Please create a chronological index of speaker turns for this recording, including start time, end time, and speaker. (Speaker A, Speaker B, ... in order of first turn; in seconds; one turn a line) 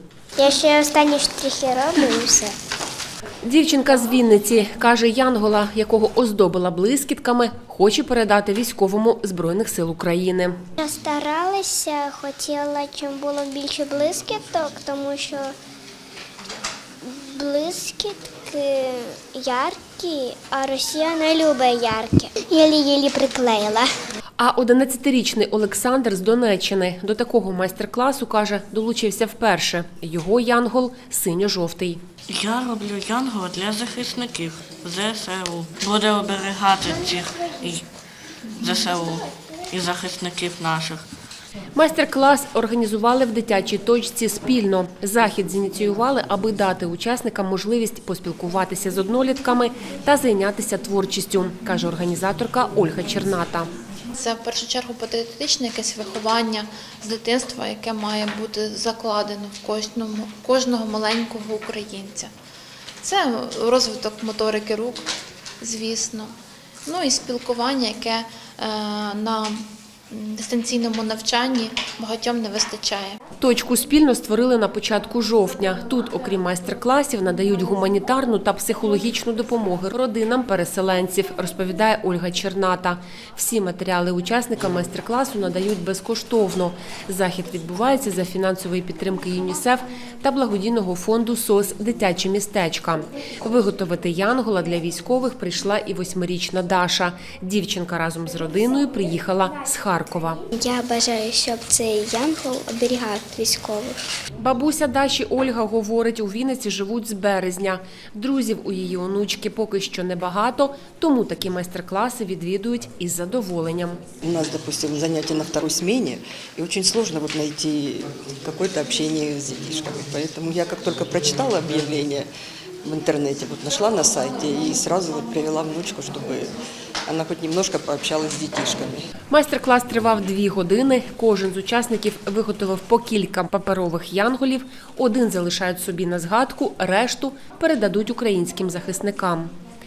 Speaker A: 0.4-2.6
Speaker B: 3.4-10.6
Speaker A: 10.8-15.6
Speaker A: 17.0-23.9
Speaker B: 24.4-32.0
Speaker C: 32.3-37.9
Speaker C: 38.6-41.0
Speaker B: 41.8-53.7
Speaker D: 54.2-62.3
Speaker D: 63.0-65.1
Speaker D: 65.6-66.3
Speaker D: 66.9-73.2
Speaker B: 73.4-100.5
Speaker A: 100.6-104.0
Speaker B: 104.4-114.0
Speaker E: 114.2-122.3
Speaker E: 122.8-126.5
Speaker E: 127.1-129.1
Speaker B: 129.3-139.5